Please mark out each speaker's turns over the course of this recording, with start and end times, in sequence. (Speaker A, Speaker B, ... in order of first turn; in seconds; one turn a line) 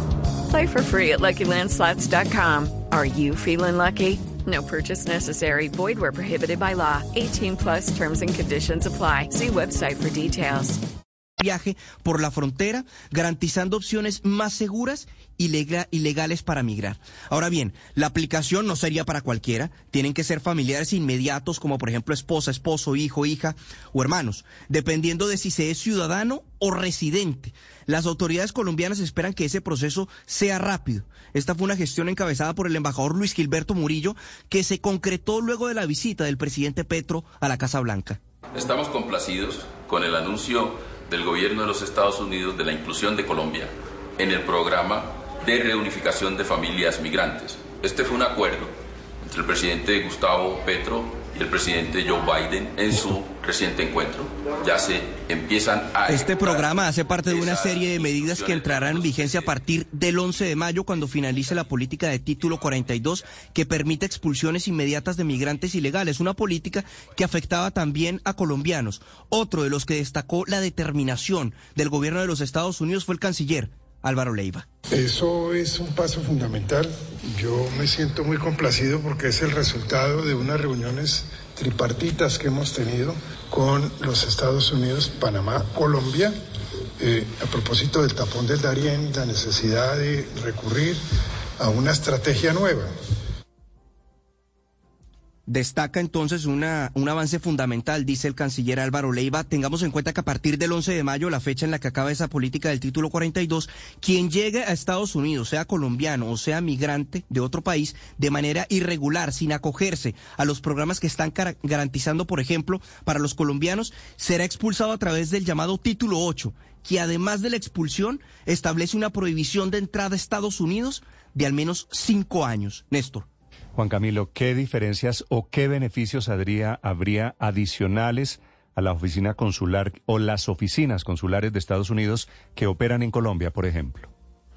Speaker A: 0.5-10.8
Speaker B: 11.4-38.2
Speaker C: 38.5-48.7
Speaker C: 49.2-59.5
Speaker B: 56.1-74.7
Speaker D: 74.9-86.3
Speaker D: 87.0-91.0
Speaker D: 91.6-92.9
Speaker B: 95.5-123.3
Speaker E: 123.7-134.1